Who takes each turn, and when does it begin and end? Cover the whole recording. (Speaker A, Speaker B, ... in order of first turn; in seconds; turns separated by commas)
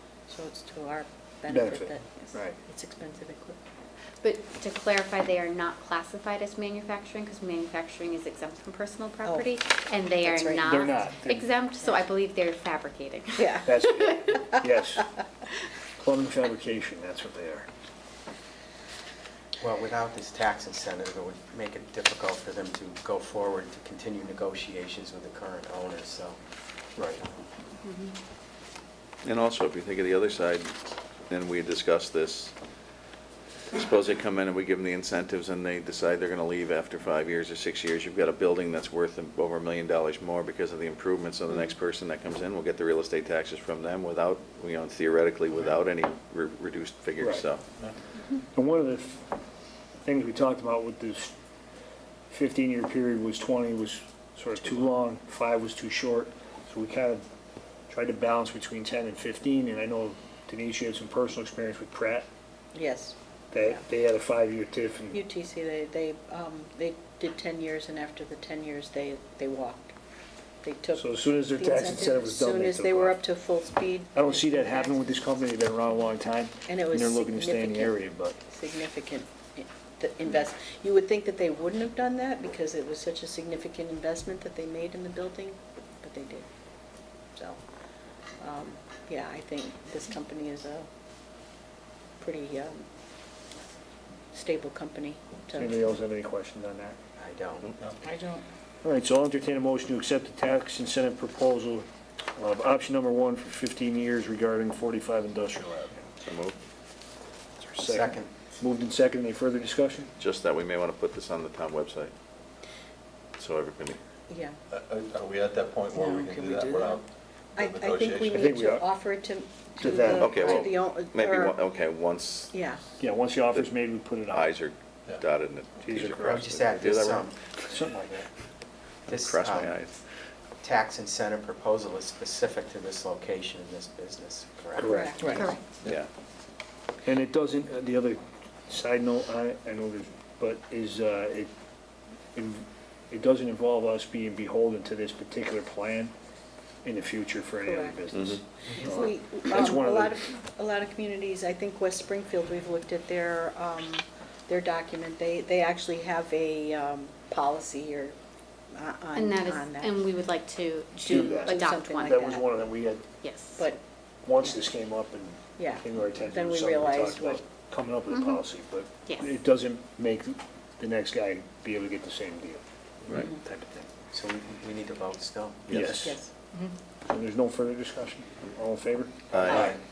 Speaker A: 0.3-3.6, Speaker B: 1.5-2.6, Speaker C: 4.2-13.8, Speaker A: 9.2-9.5, Speaker A: 10.2-10.9, Speaker B: 10.6-11.5, Speaker A: 13.4-14.7, Speaker B: 13.7-15.1, Speaker B: 16.0-17.7, Speaker D: 19.6-26.4, Speaker C: 27.8-28.1, Speaker E: 29.2-30.7, Speaker E: 31.3-32.5, Speaker E: 33.7-47.7, Speaker B: 47.2-47.5, Speaker B: 48.5-49.3, Speaker B: 50.0-51.4, Speaker B: 52.3-57.2, Speaker B: 57.9-62.3, Speaker A: 62.7-63.8, Speaker B: 63.5-65.2, Speaker A: 65.1-69.9, Speaker A: 70.6-75.2, Speaker B: 71.0-73.2, Speaker B: 74.1-78.4, Speaker A: 76.7-86.5, Speaker A: 87.3-87.6, Speaker A: 88.4-90.9, Speaker A: 92.2-92.9, Speaker A: 94.3-95.8, Speaker B: 95.5-97.0, Speaker D: 97.2-97.7, Speaker A: 98.0-98.5, Speaker B: 98.8-101.9, Speaker B: 102.4-106.0, Speaker E: 106.2-106.6, Speaker B: 107.6-110.1, Speaker D: 107.8-108.3, Speaker E: 110.2-112.1, Speaker E: 113.4-114.0, Speaker A: 114.3-114.5, Speaker F: 114.7-118.5, Speaker A: 116.0-117.0, Speaker A: 117.6-121.6, Speaker B: 118.3-118.9, Speaker B: 119.8-120.7, Speaker E: 120.2-122.5, Speaker A: 122.5-122.8, Speaker B: 123.0-124.5, Speaker E: 124.3-127.2, Speaker B: 125.8-126.6, Speaker D: 126.2-127.4, Speaker B: 127.6-128.3, Speaker E: 129.1-129.9, Speaker D: 129.1-129.7, Speaker D: 130.6-135.4, Speaker B: 134.8-135.5, Speaker A: 134.8-135.6, Speaker C: 135.3-135.6, Speaker E: 135.8-136.1, Speaker B: 137.1-141.5, Speaker B: 142.3-146.1, Speaker B: 146.8-150.2, Speaker A: 147.6-148.0, Speaker A: 148.8-158.2, Speaker A: 158.7-160.0, Speaker C: 159.2-162.2, Speaker A: 161.0-162.5, Speaker B: 161.0-163.0, Speaker C: 163.2-163.6, Speaker B: 164.2-173.9, Speaker A: 165.6-167.4, Speaker C: 168.1-168.4, Speaker D: 174.1-175.7, Speaker E: 175.7-176.1, Speaker B: 175.7-176.2, Speaker A: 176.0-176.7, Speaker B: 177.1-179.7, Speaker E: 179.3-179.7, Speaker D: 179.4-179.8